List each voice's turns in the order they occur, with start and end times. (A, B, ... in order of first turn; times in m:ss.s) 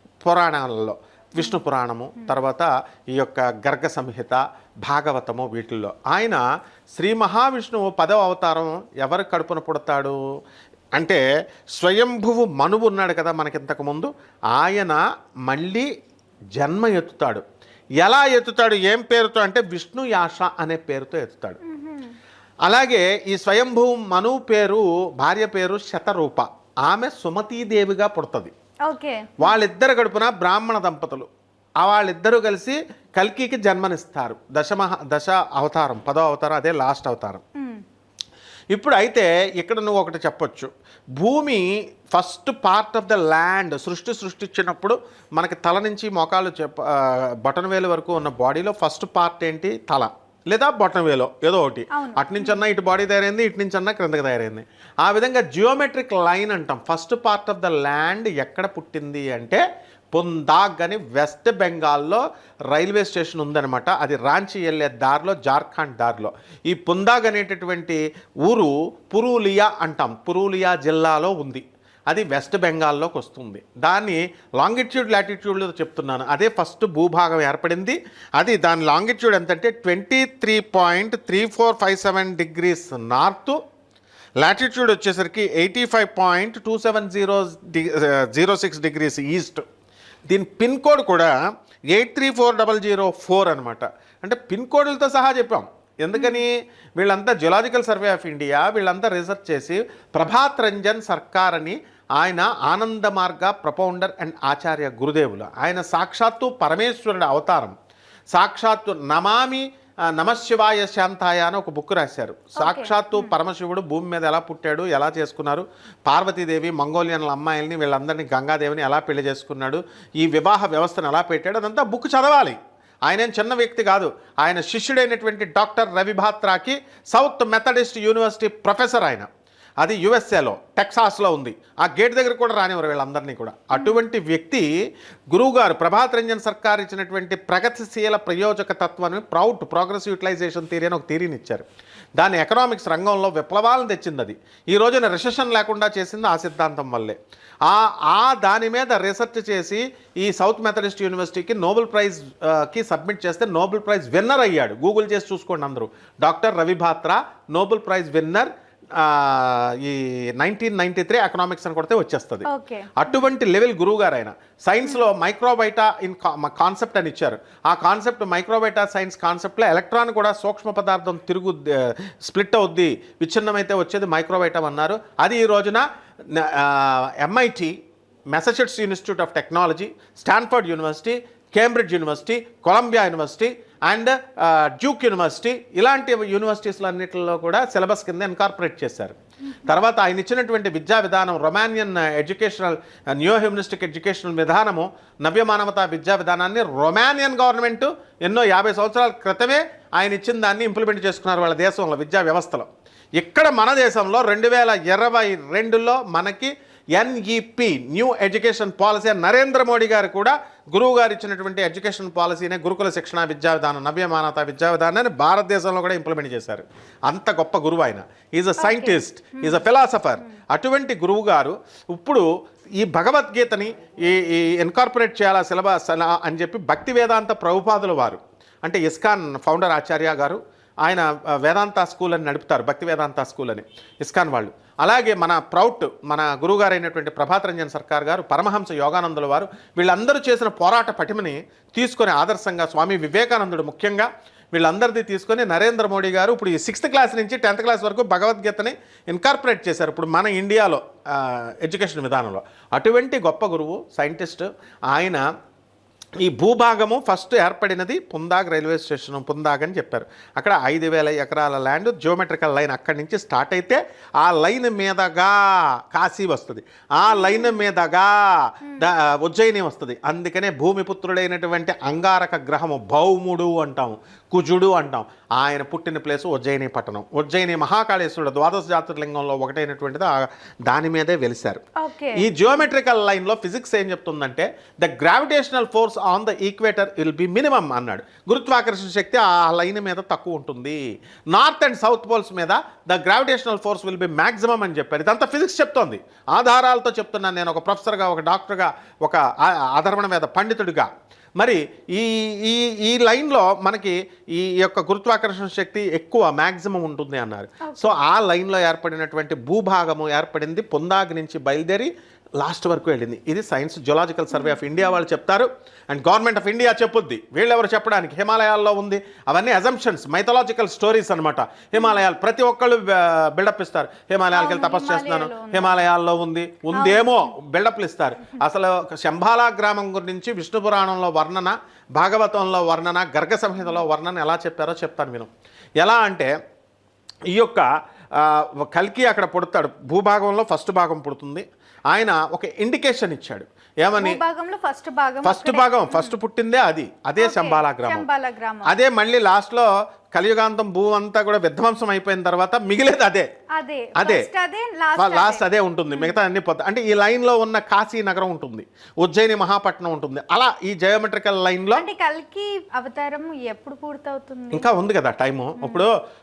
0:00.2-0:10.2 A
0:11.0-0:15.9 A
0:16.6-0:17.4 A
0:18.0-0:21.6 A
0:21.6-0:22.1 B
0:22.6-0:28.5 A
0:28.8-0:29.6 B
0:29.4-0:31.3 A
0:31.8-0:37.4 A
0:37.5-0:37.8 B
0:38.7-1:23.6 A
0:51.9-0:52.6 B
1:24.4-1:29.6 A
1:30.3-1:31.3 A
1:31.9-1:47.7 A
1:36.1-1:36.4 B
1:48.3-2:02.6 A
1:52.6-1:53.3 B
2:03.1-2:09.3 A
2:09.8-2:14.7 A
2:15.3-2:21.6 A
2:22.2-2:57.8 A
2:42.4-2:43.3 B
2:58.3-3:42.3 A
3:38.6-3:39.6 B
3:42.8-4:15.2 A
4:16.2-4:41.6 A
4:27.1-4:27.6 B
4:41.8-4:42.2 B
4:42.2-4:50.8 A
4:51.3-5:35.3 A
5:07.6-5:08.0 B
5:14.3-5:15.0 B
5:21.7-5:22.0 B
5:24.3-5:25.8 B
5:26.7-5:27.3 B
5:35.8-5:36.3 A
5:37.3-5:44.2 A
5:43.9-5:46.1 B
5:45.2-5:48.0 A
5:47.2-5:48.8 B
5:48.6-5:53.3 A
5:53.5-5:56.2 B
5:54.0-5:54.2 A
5:55.0-6:01.8 A
6:01.8-6:04.7 B
6:04.5-6:05.9 A
6:05.6-6:05.9 B